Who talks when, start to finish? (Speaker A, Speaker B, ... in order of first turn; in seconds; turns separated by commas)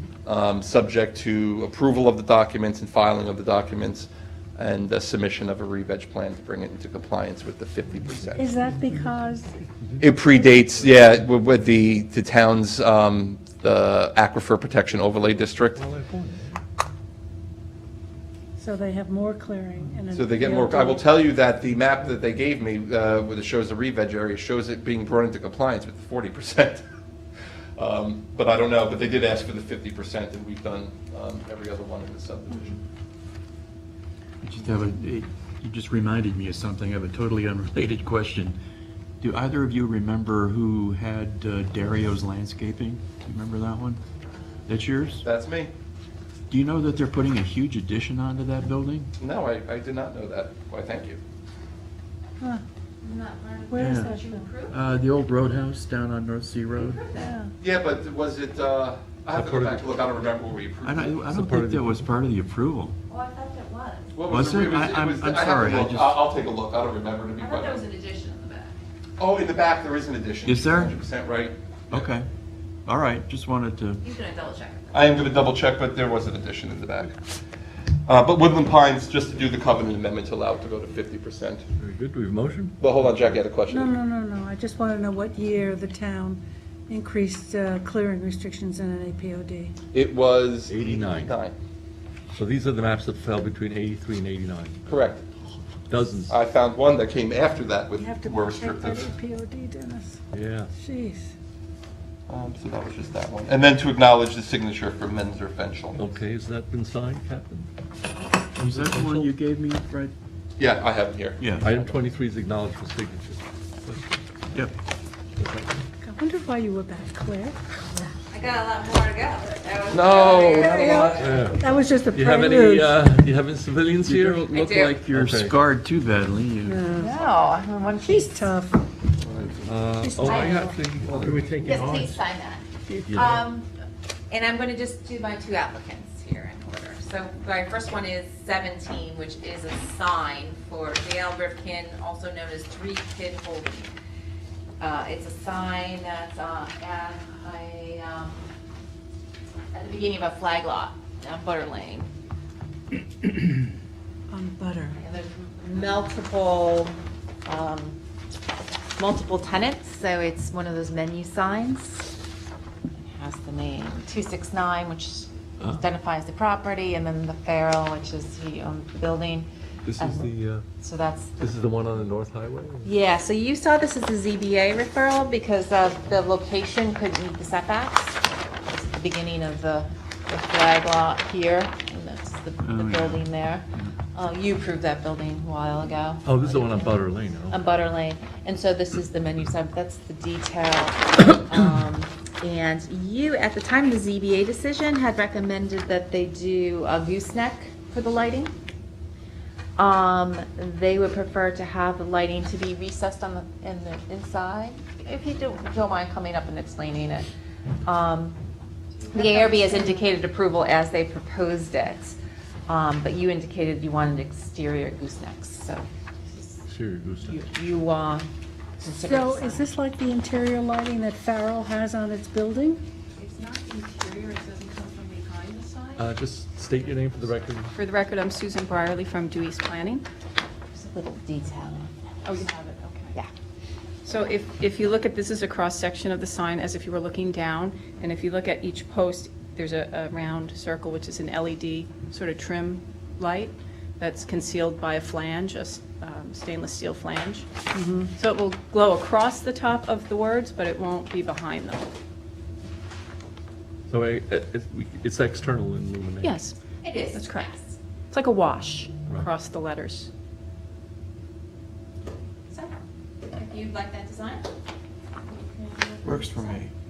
Speaker A: 0.2-8.5, Speaker B: 8.3-9.6, Speaker A: 10.0-15.8, Speaker C: 15.7-16.6, Speaker B: 18.6-21.0, Speaker A: 20.1-26.8, Speaker A: 27.8-32.8, Speaker D: 34.4-38.6, Speaker D: 39.2-44.0, Speaker D: 44.7-45.2, Speaker A: 45.2-45.7, Speaker D: 46.5-49.1, Speaker A: 49.2-51.2, Speaker E: 53.0-54.8, Speaker B: 53.7-54.5, Speaker D: 53.8-54.2, Speaker D: 54.7-57.0, Speaker E: 56.8-57.4, Speaker B: 57.2-57.5, Speaker A: 57.6-61.1, Speaker C: 59.3-60.0, Speaker D: 60.8-62.9, Speaker C: 61.2-62.0, Speaker E: 63.1-64.2, Speaker A: 64.1-67.8, Speaker D: 64.3-66.2, Speaker E: 67.4-68.7, Speaker A: 69.2-72.1, Speaker D: 70.4-71.0, Speaker D: 71.9-72.3, Speaker D: 72.8-74.0, Speaker E: 74.0-75.1, Speaker A: 74.9-77.2, Speaker A: 78.1-81.6, Speaker C: 81.8-83.4, Speaker A: 82.8-84.0, Speaker B: 83.7-89.7, Speaker A: 89.9-91.5, Speaker C: 90.7-91.3, Speaker C: 92.3-94.8, Speaker A: 94.9-95.2, Speaker C: 95.9-96.3, Speaker A: 96.3-99.1, Speaker B: 98.0-101.3, Speaker C: 100.3-100.7, Speaker A: 102.3-106.0, Speaker C: 105.9-107.7, Speaker D: 108.6-110.1, Speaker C: 108.6-109.3, Speaker A: 110.6-112.0, Speaker D: 111.4-111.6, Speaker C: 111.5-114.1, Speaker C: 115.4-115.8, Speaker B: 116.0-117.6, Speaker E: 118.3-121.2, Speaker A: 119.9-121.4, Speaker B: 120.6-123.0, Speaker C: 121.1-124.5, Speaker D: 124.0-126.8, Speaker E: 124.5-125.0, Speaker C: 125.1-125.5, Speaker B: 126.6-127.2, Speaker E: 127.0-128.5, Speaker B: 128.0-128.8, Speaker A: 129.2-129.7, Speaker C: 129.7-131.9, Speaker B: 130.0-130.9, Speaker E: 130.2-130.7, Speaker E: 131.6-133.7, Speaker C: 133.0-133.4, Speaker E: 134.3-143.9, Speaker E: 144.8-148.5, Speaker E: 149.7-152.1, Speaker B: 154.3-155.0, Speaker E: 155.0-156.9, Speaker E: 157.4-158.0, Speaker E: 159.0-162.1, Speaker E: 163.0-170.3, Speaker C: 169.8-170.7, Speaker E: 170.8-171.5, Speaker C: 171.4-172.9, Speaker E: 172.8-198.5, Speaker D: 182.6-183.9, Speaker C: 186.2-187.6, Speaker E: 199.8-207.2, Speaker E: 207.8-208.4, Speaker F: 209.1-210.0, Speaker E: 209.1-212.1, Speaker E: 212.7-216.6, Speaker C: 216.7-217.4, Speaker E: 217.2-218.3, Speaker E: 218.8-219.7, Speaker B: 219.0-222.8, Speaker F: 223.2-226.1, Speaker C: 226.0-227.7, Speaker F: 227.7-230.0, Speaker E: 230.7-231.9, Speaker F: 232.2-233.2, Speaker F: 234.0-247.5, Speaker B: 247.7-248.1, Speaker F: 248.2-251.9, Speaker C: 253.9-256.4, Speaker F: 256.2-256.6, Speaker E: 256.8-257.7, Speaker F: 257.1-257.5, Speaker F: 258.1-260.1, Speaker E: 262.5-262.7, Speaker E: 263.2-264.5, Speaker E: 265.5-266.5, Speaker D: 266.0-266.7